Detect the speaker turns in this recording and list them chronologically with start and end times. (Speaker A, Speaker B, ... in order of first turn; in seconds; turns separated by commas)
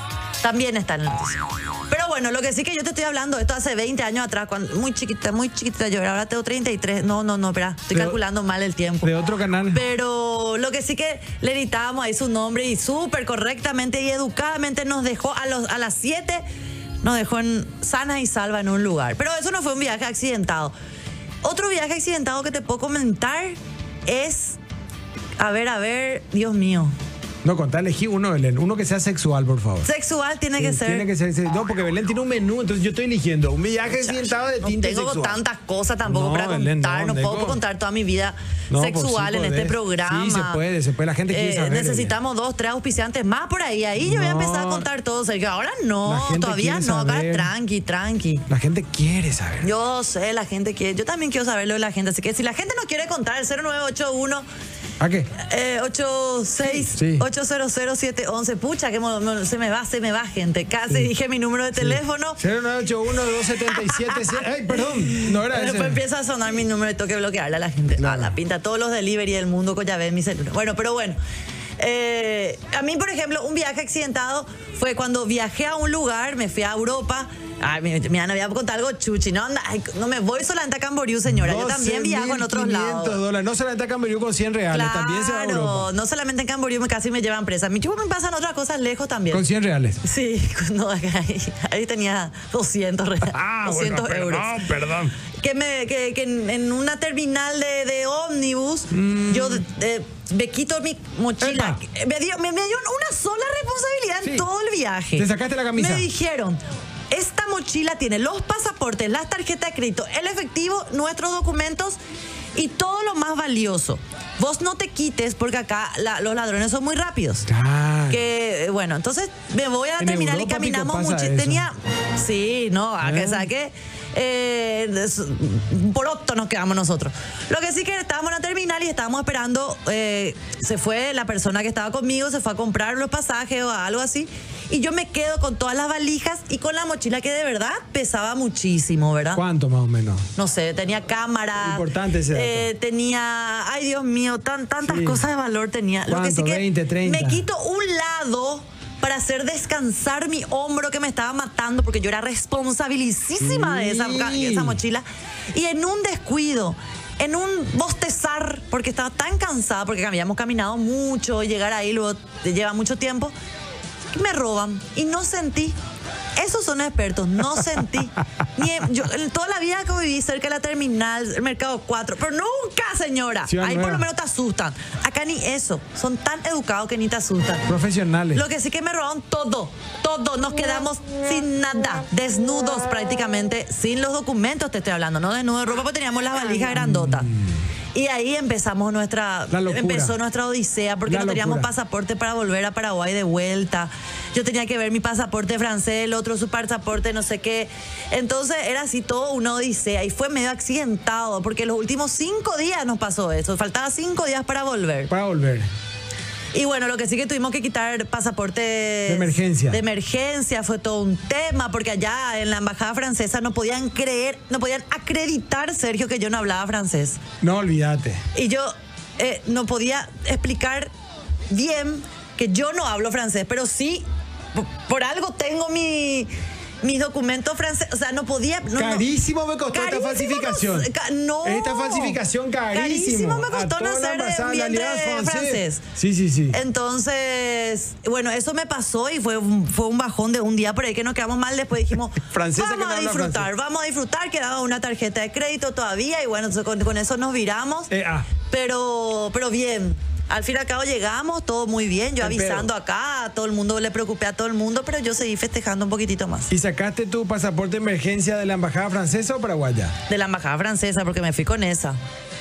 Speaker A: 0.4-9.1, Speaker B: 9.0-9.8, Speaker A: 9.7-16.4, Speaker A: 17.0-20.7, Speaker A: 21.4-24.6, Speaker A: 25.4-26.9, Speaker B: 27.4-29.9, Speaker A: 29.8-31.1, Speaker B: 30.6-35.4, Speaker A: 33.9-40.6, Speaker B: 36.0-37.6, Speaker B: 38.7-42.1, Speaker A: 41.3-48.4, Speaker B: 44.0-44.9, Speaker B: 46.0-47.5, Speaker B: 48.5-49.7, Speaker A: 49.6-54.5, Speaker B: 55.0-55.3, Speaker A: 55.3-62.4, Speaker B: 56.6-57.2, Speaker B: 61.8-66.0, Speaker A: 63.5-71.2, Speaker B: 68.0-68.3, Speaker A: 71.8-83.2, Speaker B: 81.3-85.9, Speaker A: 84.7-89.4, Speaker B: 89.3-90.0, Speaker A: 90.0-94.7, Speaker B: 93.2-95.1, Speaker A: 95.3-112.0, Speaker B: 98.9-99.6, Speaker B: 101.4-101.8, Speaker B: 105.2-106.1, Speaker A: 112.5-117.5, Speaker B: 117.5-118.2, Speaker A: 118.1-139.4, Speaker B: 120.0-121.7, Speaker B: 123.0-123.4, Speaker B: 139.3-140.3, Speaker A: 140.3-163.3, Speaker B: 141.6-142.7, Speaker B: 144.8-145.2, Speaker B: 146.1-147.4, Speaker B: 153.4-154.8, Speaker A: 164.1-165.8, Speaker A: 166.3-177.7, Speaker B: 173.4-174.1, Speaker B: 177.7-178.4, Speaker A: 178.3-187.3, Speaker B: 186.7-187.6, Speaker A: 187.9-205.1, Speaker B: 189.5-190.2, Speaker B: 191.1-191.7, Speaker B: 205.1-205.7, Speaker A: 206.5-217.2, Speaker B: 209.1-209.8, Speaker B: 217.4-218.2, Speaker A: 218.3-220.9, Speaker A: 221.5-226.3, Speaker A: 226.8-229.1, Speaker B: 228.8-230.9, Speaker A: 229.7-232.2, Speaker B: 231.4-236.6, Speaker A: 232.7-235.8, Speaker A: 236.5-247.9, Speaker B: 242.2-243.5, Speaker B: 247.9-248.3, Speaker A: 248.4-256.5, Speaker B: 252.2-252.7, Speaker B: 256.5-259.9, Speaker A: 260.1-262.0